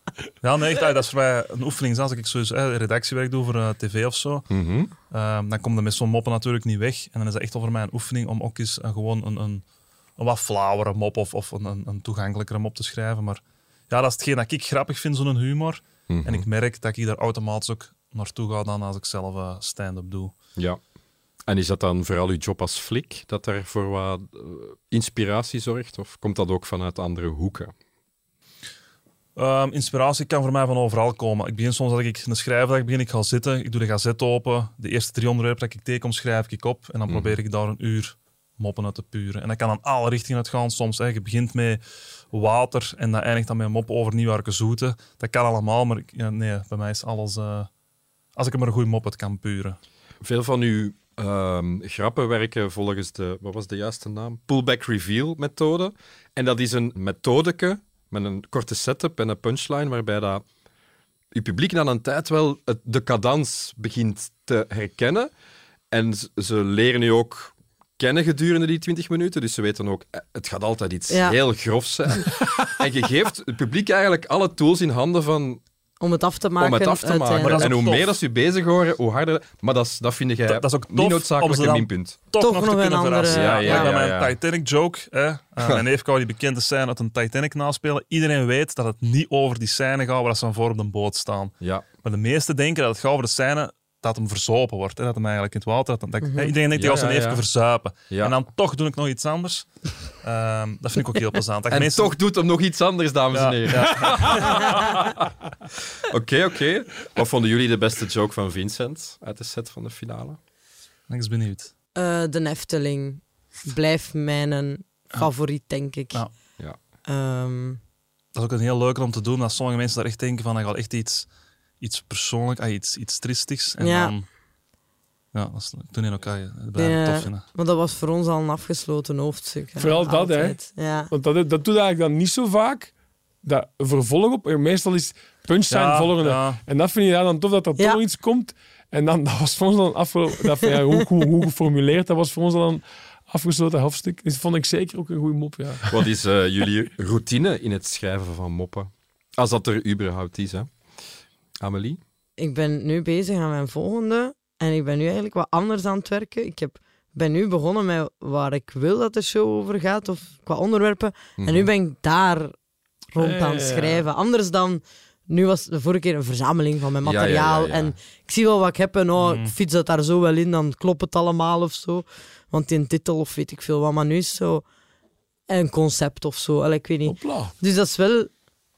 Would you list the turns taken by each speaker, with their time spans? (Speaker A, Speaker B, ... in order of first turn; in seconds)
Speaker A: 0.4-4.5, 5.1-9.7, 10.2-20.4, 29.4-41.8, 42.3-47.7, 48.4-49.8, 77.4-78.2, 80.5-102.2, 103.3-105.0, 111.1-111.7, 118.3-121.3, 121.8-124.3, 125.3-127.4, 135.7-136.6, 169.2-169.5
Speaker B: 4.5-4.9, 16.1-16.5, 21.5-27.7, 37.1-37.4, 50.2-60.5, 61.3-65.3, 65.9-75.6, 76.6-82.2, 83.3-84.4, 96.8-97.4, 98.1-98.4, 101.7-105.2, 106.1-110.4, 145.9-150.7, 151.6-152.0, 161.4-161.7, 167.0-167.9
Speaker C: 71.1-71.4, 76.0-77.8, 82.4-83.9, 96.2-96.5, 112.0-116.3, 117.1-117.8, 123.8-124.1, 126.8-131.1, 152.4-162.5, 163.1-174.7, 175.5-178.4
Speaker D: 129.8-132.9, 133.4-146.0, 163.2-164.1, 177.1-177.5